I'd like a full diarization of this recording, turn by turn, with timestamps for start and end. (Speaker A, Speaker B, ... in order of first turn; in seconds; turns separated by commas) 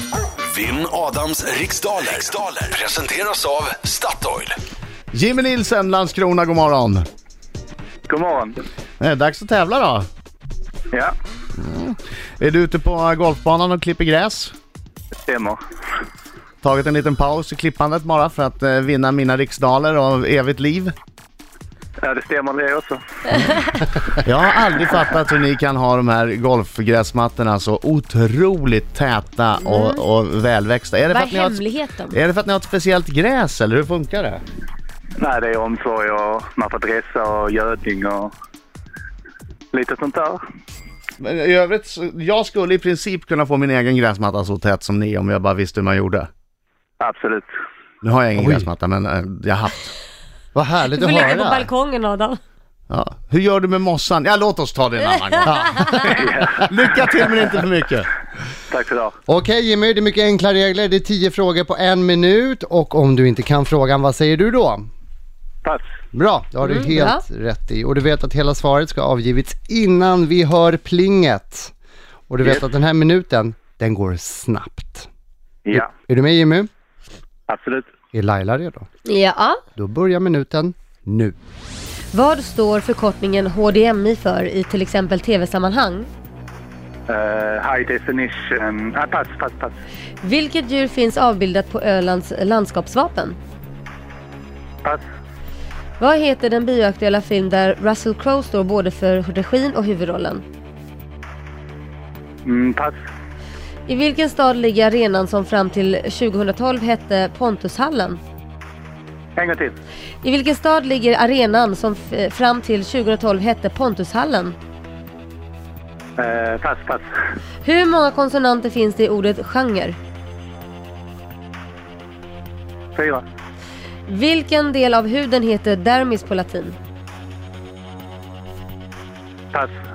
Speaker A: 0.5-4.5, Speaker B: 5.1-7.0, Speaker C: 8.1-8.6, Speaker B: 9.0-10.1, Speaker B: 11.6-14.5, Speaker C: 15.2-15.6, Speaker B: 16.6-20.9, Speaker C: 22.0-23.0, Speaker B: 24.1-34.4, Speaker D: 29.6-30.0, Speaker D: 31.1-32.2, Speaker C: 35.2-38.3, Speaker C: 39.7-40.4, Speaker B: 41.2-46.3, Speaker C: 47.0-47.5, Speaker B: 48.0-49.9, Speaker E: 48.3-48.7, Speaker E: 50.5-51.7, Speaker D: 50.9-52.4, Speaker B: 52.9-58.1, Speaker E: 55.4-55.9, Speaker D: 55.7-56.0, Speaker C: 56.0-56.7, Speaker C: 58.7-59.1, Speaker E: 59.3-64.9, Speaker E: 66.1-71.7, Speaker D: 66.6-67.2, Speaker E: 72.3-75.1, Speaker E: 75.7-76.7, Speaker C: 77.5-77.9, Speaker E: 78.1-78.9, Speaker D: 79.0-79.6, Speaker E: 79.8-81.3, Speaker D: 82.1-86.1, Speaker C: 87.1-89.8, Speaker D: 90.2-93.4, Speaker D: 96.0-100.4, Speaker C: 102.4-103.0, Speaker D: 103.9-108.2, Speaker C: 109.3-109.7, Speaker D: 110.2-114.5, Speaker C: 116.2-117.0, Speaker D: 117.6-120.0, Speaker C: 122.9-123.2, Speaker D: 124.1-126.8